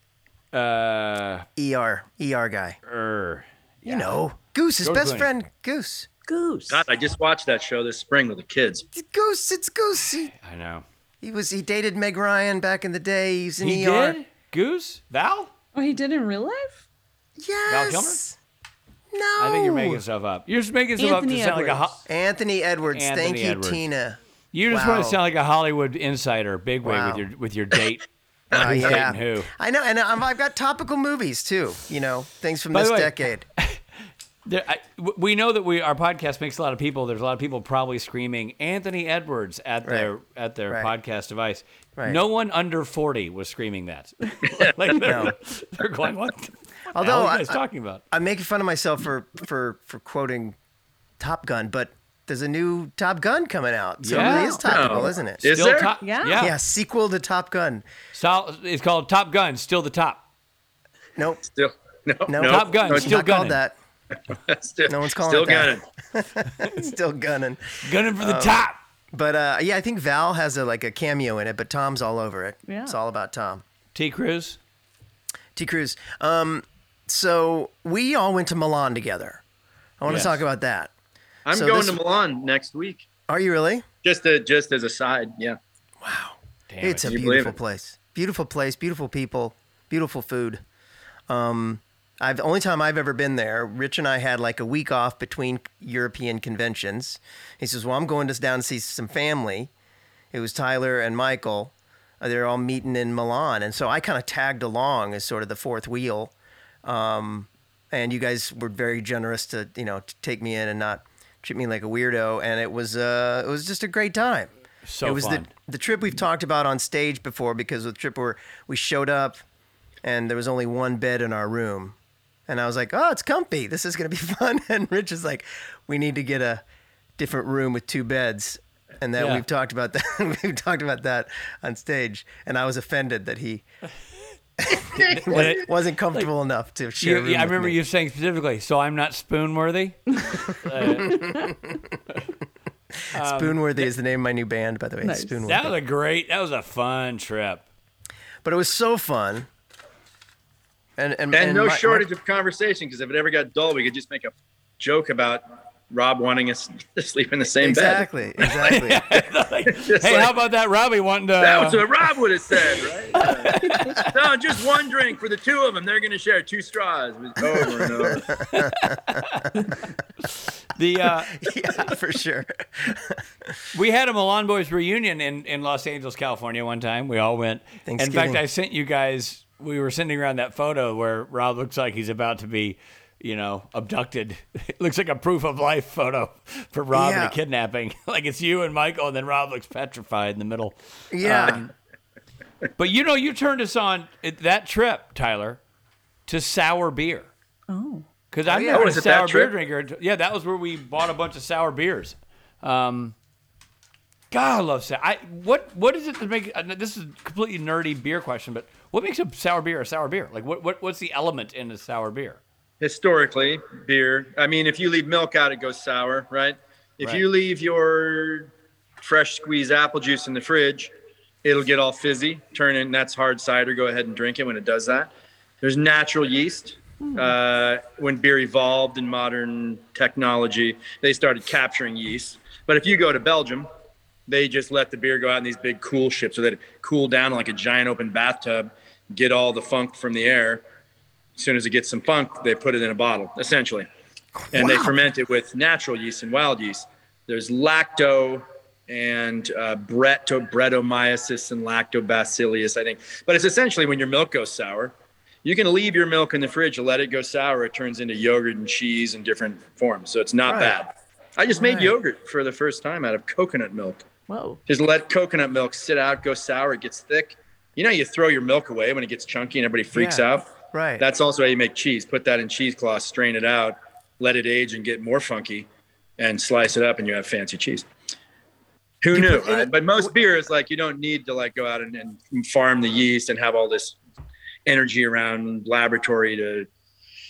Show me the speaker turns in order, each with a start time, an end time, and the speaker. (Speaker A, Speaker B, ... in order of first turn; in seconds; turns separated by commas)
Speaker A: 0.5-1.4, Speaker B: 1.6-2.8, Speaker A: 2.9-4.2, Speaker B: 3.8-6.1, Speaker A: 4.8-5.3, Speaker C: 6.3-6.8, Speaker D: 6.7-8.8, Speaker B: 8.9-10.3, Speaker A: 10.3-10.8, Speaker B: 11.2-14.2, Speaker A: 13.6-15.5, Speaker C: 15.7-16.8, Speaker B: 17.4-18.4, Speaker A: 17.7-18.2, Speaker B: 19.1-20.0, Speaker A: 19.4-22.0, Speaker C: 21.0-21.8, Speaker B: 22.1-24.2, Speaker A: 22.9-23.8, Speaker A: 24.5-29.5, Speaker B: 24.7-25.2, Speaker B: 26.8-27.3, Speaker B: 28.5-33.4, Speaker A: 32.7-33.8, Speaker A: 34.4-48.0, Speaker B: 39.8-40.1, Speaker B: 45.0-45.3, Speaker B: 46.9-50.5, Speaker B: 51.2-55.4, Speaker A: 54.0-54.6, Speaker C: 54.1-54.6, Speaker D: 54.6-56.0, Speaker A: 55.4-56.5, Speaker C: 56.0-56.4, Speaker B: 56.4-57.8, Speaker A: 58.1-60.2, Speaker D: 61.5-63.1, Speaker B: 62.3-63.7, Speaker A: 62.4-63.6, Speaker D: 64.3-65.8, Speaker B: 64.9-68.6, Speaker A: 67.8-68.8, Speaker B: 69.1-73.6, Speaker C: 72.7-73.0, Speaker A: 73.9-74.6, Speaker B: 75.5-79.4, Speaker B: 80.0-80.9, Speaker A: 80.1-80.4, Speaker D: 81.5-83.1, Speaker B: 81.5-82.0, Speaker B: 83.3-83.8, Speaker D: 84.0-85.6, Speaker B: 86.0-90.6, Speaker A: 86.7-87.2, Speaker D: 87.0-87.5, Speaker B: 91.3-99.7, Speaker B: 100.3-106.3, Speaker B: 106.8-114.5, Speaker A: 114.8-115.5, Speaker B: 115.0-119.4, Speaker B: 120.0-122.0, Speaker B: 122.5-126.6, Speaker B: 127.2-133.6, Speaker A: 129.2-129.4, Speaker B: 134.6-137.8, Speaker A: 134.9-136.3, Speaker A: 137.0-141.3, Speaker C: 140.3-141.5, Speaker B: 141.0-141.7, Speaker A: 143.1-143.9, Speaker B: 143.1-145.7, Speaker C: 145.0-145.3, Speaker A: 145.4-147.6, Speaker B: 148.4-149.5, Speaker B: 151.0-152.1, Speaker D: 151.3-158.1, Speaker B: 157.6-159.0, Speaker A: 158.4-161.8, Speaker D: 159.7-160.3, Speaker D: 161.4-168.2, Speaker A: 163.2-164.1, Speaker B: 168.0-169.1, Speaker A: 168.3-171.9, Speaker B: 171.3-173.6, Speaker A: 173.7-191.7, Speaker B: 177.8-178.4, Speaker B: 186.9-187.3, Speaker B: 191.1-191.6, Speaker A: 192.8-195.6, Speaker A: 196.3-197.3, Speaker C: 197.7-198.1, Speaker A: 198.3-203.1, Speaker B: 198.4-198.9, Speaker D: 198.7-199.5, Speaker A: 204.3-212.4, Speaker D: 212.8-220.9, Speaker D: 221.4-225.1, Speaker D: 225.6-233.7, Speaker C: 227.0-227.3, Speaker D: 234.3-240.6, Speaker D: 241.4-243.8, Speaker B: 244.4-244.9, Speaker D: 244.5-254.9, Speaker D: 255.4-264.0, Speaker B: 260.4-260.8, Speaker B: 261.6-261.9, Speaker C: 264.3-264.6, Speaker D: 264.7-275.7, Speaker B: 269.9-271.0, Speaker D: 276.2-277.9, Speaker D: 279.0-284.0, Speaker B: 279.1-279.7, Speaker D: 284.6-286.7